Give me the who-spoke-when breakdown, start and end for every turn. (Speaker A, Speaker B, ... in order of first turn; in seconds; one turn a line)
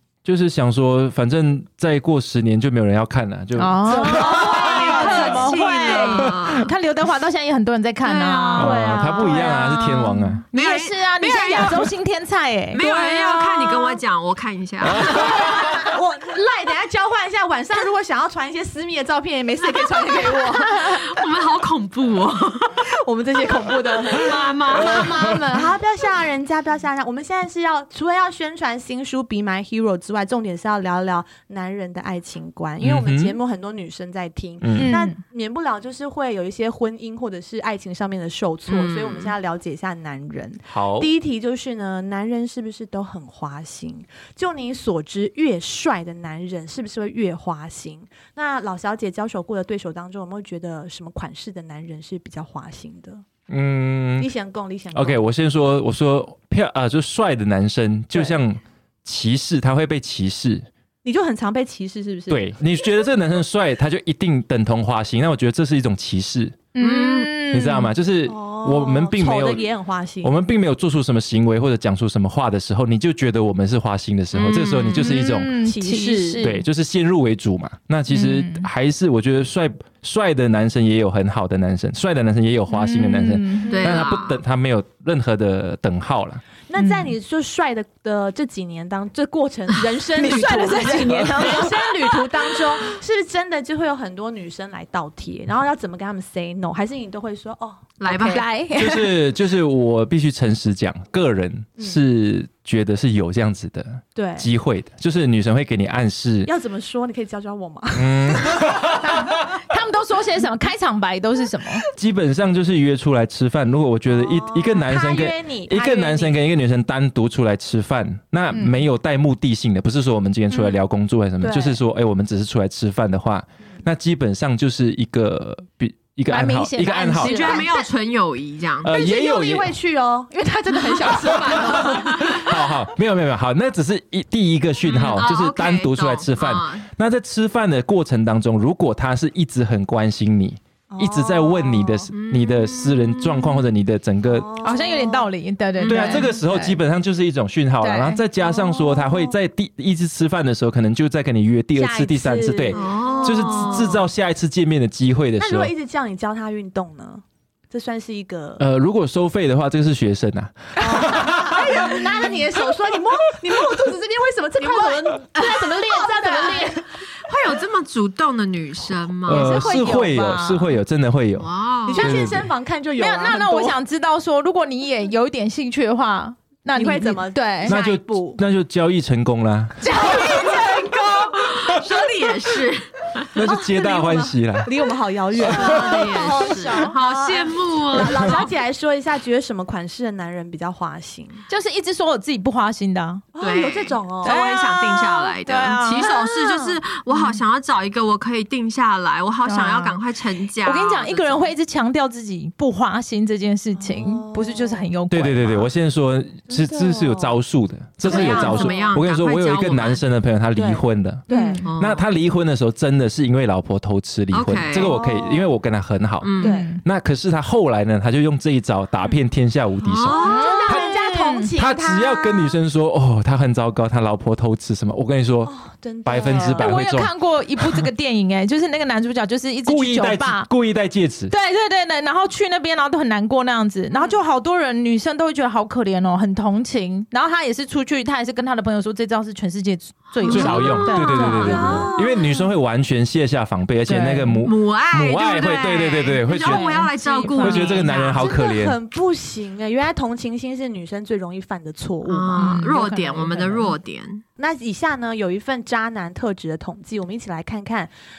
Speaker A: 0.2-4.6
Speaker B: 3.6-9.8
Speaker C: 3.9-6.2
Speaker D: 4.1-6.7
Speaker D: 8.0-11.9
Speaker A: 8.5-10.4
Speaker C: 8.6-9.8
Speaker B: 10.5-12.8
Speaker D: 12.7-15.7
Speaker C: 12.8-14.0
Speaker A: 14.8-15.7
Speaker C: 14.9-21.2
Speaker D: 20.2-22.8
Speaker C: 22.8-53.2
Speaker D: 23.7-25.3
Speaker A: 24.7-25.4
Speaker A: 32.8-33.4
Speaker A: 34.6-35.0
Speaker B: 34.8-35.2
Speaker D: 38.7-39.3
Speaker A: 40.7-41.1
Speaker A: 53.5-54.3
Speaker C: 54.2-55.2
Speaker A: 54.9-60.7
Speaker C: 61.0-62.5
Speaker A: 62.3-66.6
Speaker B: 66.7-67.9
Speaker D: 66.8-67.3
Speaker A: 67.5-69.6
Speaker C: 68.2-70.3
Speaker A: 70.2-75.6
Speaker D: 74.3-75.2
Speaker B: 74.9-76.6
Speaker C: 75.5-76.4
Speaker A: 76.4-86.4
Speaker B: 78.1-78.7
Speaker B: 82.7-83.7
Speaker C: 83.7-84.0
Speaker D: 83.7-84.4
Speaker C: 86.7-98.4
Speaker B: 86.8-87.1
Speaker B: 90.1-92.7
Speaker D: 98.0-98.4
Speaker B: 98.1-99.2
Speaker A: 98.7-106.5
Speaker C: 104.1-104.5
Speaker C: 106.4-109.3
Speaker A: 107.9-109.3
Speaker B: 109.7-111.8
Speaker A: 112.0-127.4
Speaker C: 114.1-116.3
Speaker B: 118.5-118.8
Speaker C: 121.4-121.8
Speaker B: 126.3-127.7
Speaker D: 127.2-128.9
Speaker C: 127.3-127.9
Speaker A: 128.8-129.7
Speaker C: 128.8-132.5
Speaker A: 131.4-144.5
Speaker D: 131.6-132.4
Speaker D: 134.8-136.9
Speaker C: 140.9-142.1
Speaker D: 142.1-143.6
Speaker C: 144.2-145.3
Speaker B: 144.6-146.8
Speaker D: 145.8-146.3
Speaker A: 145.8-155.7
Speaker B: 147.8-148.2
Speaker C: 148.4-149.3
Speaker C: 151.7-154.0
Speaker D: 152.7-154.1
Speaker C: 155.4-158.6
Speaker A: 158.6-162.0
Speaker C: 160.8-166.8
Speaker D: 164.6-165.7
Speaker B: 165.4-166.8
Speaker D: 167.2-169.7
Speaker A: 169.2-172.5
Speaker B: 169.3-170.8
Speaker D: 171.4-172.3
Speaker C: 171.8-173.8
Speaker B: 173.0-177.8
Speaker C: 176.7-178.4
Speaker A: 177.6-180.0
Speaker B: 179.8-180.5
Speaker C: 179.9-181.4
Speaker D: 180.3-183.4
Speaker A: 183.3-184.7
Speaker C: 183.4-191.4
Speaker A: 185.3-186.1
Speaker D: 185.4-188.5
Speaker B: 185.9-186.9
Speaker A: 188.1-188.3
Speaker B: 191.5-193.2
Speaker C: 193.3-194.4
Speaker D: 193.4-201.5
Speaker B: 194.2-196.1
Speaker C: 196.0-196.8
Speaker B: 197.1-197.4
Speaker B: 199.4-200.0
Speaker B: 200.6-205.7
Speaker C: 203.8-204.9
Speaker A: 205.1-211.2
Speaker C: 206.5-207.3
Speaker C: 208.0-208.9
Speaker D: 208.0-210.0
Speaker C: 210.6-211.6
Speaker B: 211.3-211.7
Speaker D: 211.6-212.0
Speaker A: 211.8-220.9
Speaker D: 214.3-215.0
Speaker C: 214.7-215.5
Speaker D: 216.2-216.6
Speaker B: 216.4-216.8
Speaker C: 216.4-216.7
Speaker D: 219.8-220.7
Speaker C: 220.0-222.6
Speaker B: 220.2-221.5
Speaker A: 221.6-225.5
Speaker C: 225.4-226.8
Speaker A: 226.0-227.8
Speaker B: 226.5-230.5
Speaker A: 229.7-231.3
Speaker B: 231.3-241.8
Speaker C: 233.9-234.2
Speaker D: 240.2-241.9
Speaker A: 240.3-246.9
Speaker C: 240.4-242.5
Speaker B: 243.8-244.4
Speaker D: 244.4-248.4
Speaker B: 246.4-247.9
Speaker A: 247.4-248.8
Speaker C: 247.4-252.7
Speaker D: 252.1-254.2
Speaker B: 252.3-253.7
Speaker C: 254.4-257.9